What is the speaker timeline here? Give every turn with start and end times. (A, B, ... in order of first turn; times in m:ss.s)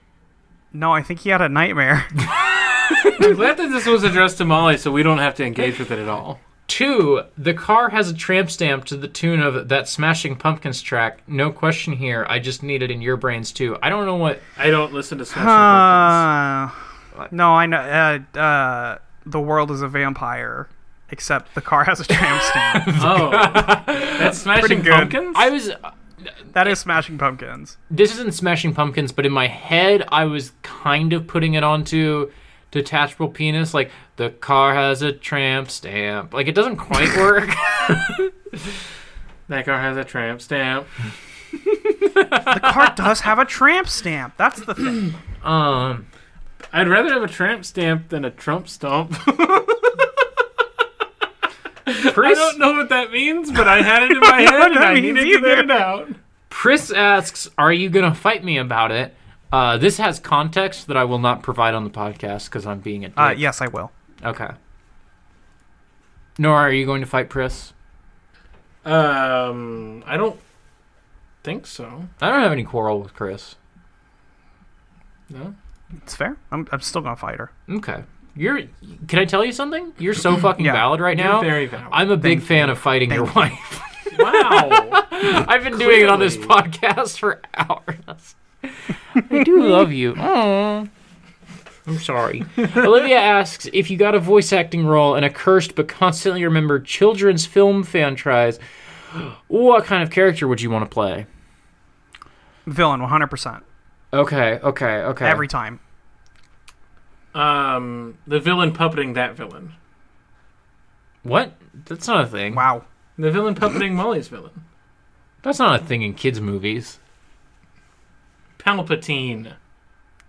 0:00.7-0:02.1 A
0:02.9-0:03.2 B
0:03.0-0:06.4 C
0:06.7-0:14.4 B
0:14.6-0:16.2 C
0:15.3-0:16.7 A
0:17.3-0:23.0 A
0:22.7-0:24.4 B
0:23.0-0:25.5 C
0:24.5-0:25.2 A
0:25.2-0:25.9 B
0:26.5-0:27.8 A
0:27.9-0:38.3 B
0:39.5-0:40.9 C
0:42.0-0:43.0 B
0:42.5-0:45.1 A
0:45.4-0:46.1 B
0:46.7-0:50.1 C
0:51.8-0:56.2 C
0:52.0-0:52.6 B
0:54.1-0:55.7 A
0:56.5-1:03.4 B
1:03.2-1:03.9 A
1:04.2-1:04.5 B
1:06.4-1:07.7 B
1:08.8-1:10.4 C
1:11.4-1:12.1 C
1:12.2-1:13.5 B
1:15.3-1:15.5 C
1:16.0-1:17.5 A
1:17.7-1:30.9 B
1:20.6-1:20.9 A
1:21.1-1:22.1 C
1:22.2-1:23.4 A
1:24.1-1:25.0 C
1:25.7-1:26.5 C
1:31.9-1:38.6 B
1:39.1-1:41.3 B
1:42.6-1:43.6 A
1:44.1-1:45.4 B
1:45.2-1:45.8 A
1:47.3-1:49.7 C
1:51.2-1:52.6 B
1:52.5-1:52.8 A
1:53.2-1:54.6 C
1:55.4-1:57.0 B
1:58.6-1:59.5 C